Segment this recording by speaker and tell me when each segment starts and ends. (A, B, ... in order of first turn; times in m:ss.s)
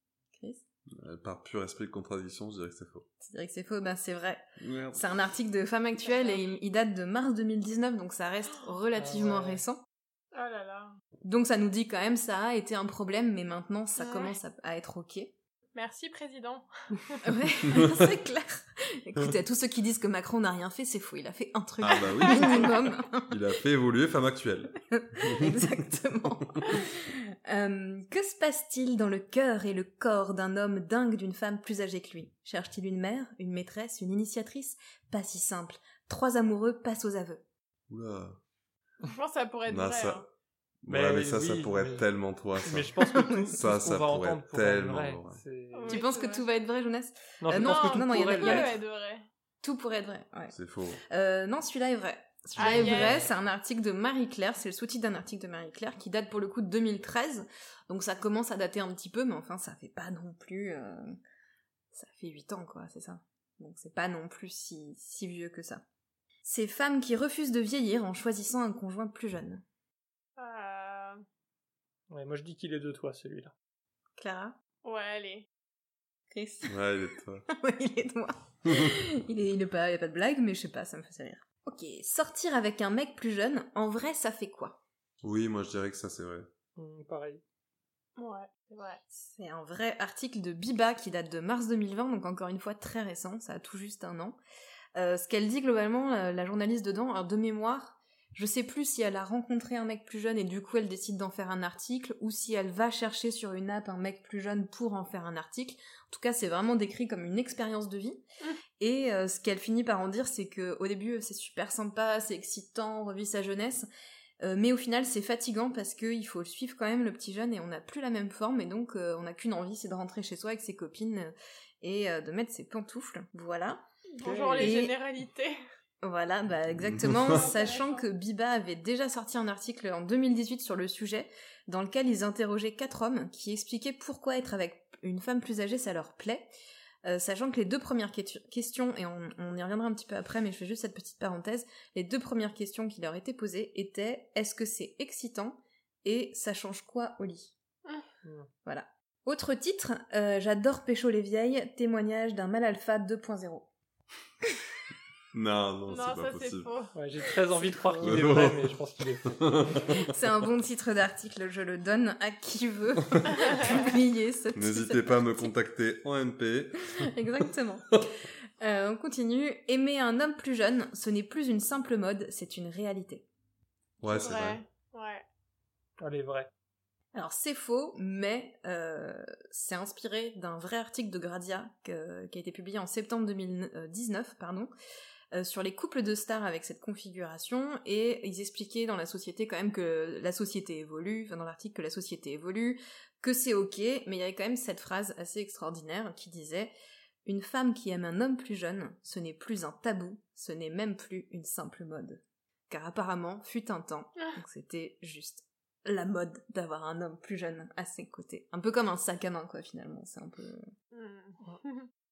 0:00.4-0:00.6 A
0:00.9-0:03.1 B
0:03.2-0:09.8 A
0:04.6-0:05.0 B
0:06.0-0:06.4 C
0:08.9-0:09.6 D
0:10.3-0:11.0 C
0:11.2-0:15.3 A
0:14.0-0:14.4 C
0:15.7-0:17.8 C
0:17.2-0:23.3 A
0:21.8-0:22.7 B
0:22.1-0:22.8 C
0:23.3-0:25.7 B
0:24.9-0:37.4 A
0:37.9-0:38.4 B
0:39.1-0:40.2 C
0:39.7-0:40.2 B
0:40.8-0:45.4 B
0:40.9-0:42.0 D
0:42.6-0:46.0 D
0:43.1-0:43.6 A
0:45.7-0:46.4 C
0:45.9-0:48.7 A
0:47.4-0:48.8 D
0:47.5-0:49.3 C
0:49.6-0:50.5 A
0:50.5-0:51.0 B
0:51.1-1:01.2 A
0:52.6-0:53.2 C
0:52.6-0:53.3 D
1:01.9-1:05.8 A
1:06.4-1:09.6 A
1:10.4-1:11.2 C
1:12.1-1:13.5 D
1:14.2-1:14.6 A
1:14.8-1:15.5 C
1:16.3-1:16.9 A
1:16.6-1:17.5 B
1:17.5-1:24.8 A
1:18.6-1:18.9 B
1:25.2-1:26.5 B
1:26.8-1:27.4 D
1:28.2-1:29.0 C
1:29.1-1:34.4 A
1:34.9-1:48.2 A
1:48.8-1:53.9 A
1:54.4-2:03.8 A
2:04.1-2:05.6 C
2:04.2-2:04.7 D
2:04.5-2:05.0 A
2:06.0-2:16.5 A
2:06.8-2:07.4 B
2:07.2-2:08.1 C
2:17.0-2:27.5 A
2:28.2-2:28.5 D
2:28.6-2:33.7 A
2:35.3-2:36.7 B
2:35.9-2:37.0 C
2:36.9-2:39.9 D
2:37.5-2:38.1 C
2:38.0-2:38.7 B
2:39.2-2:40.1 B
2:39.9-2:45.5 A
2:44.5-2:47.1 B
2:46.9-2:48.0 A
2:48.6-2:53.2 A
2:54.0-2:54.6 B
2:54.0-2:55.2 C
2:56.0-2:56.5 D
2:57.1-3:04.7 A
3:05.3-3:16.7 A
3:17.2-3:30.7 A
3:30.9-3:31.9 C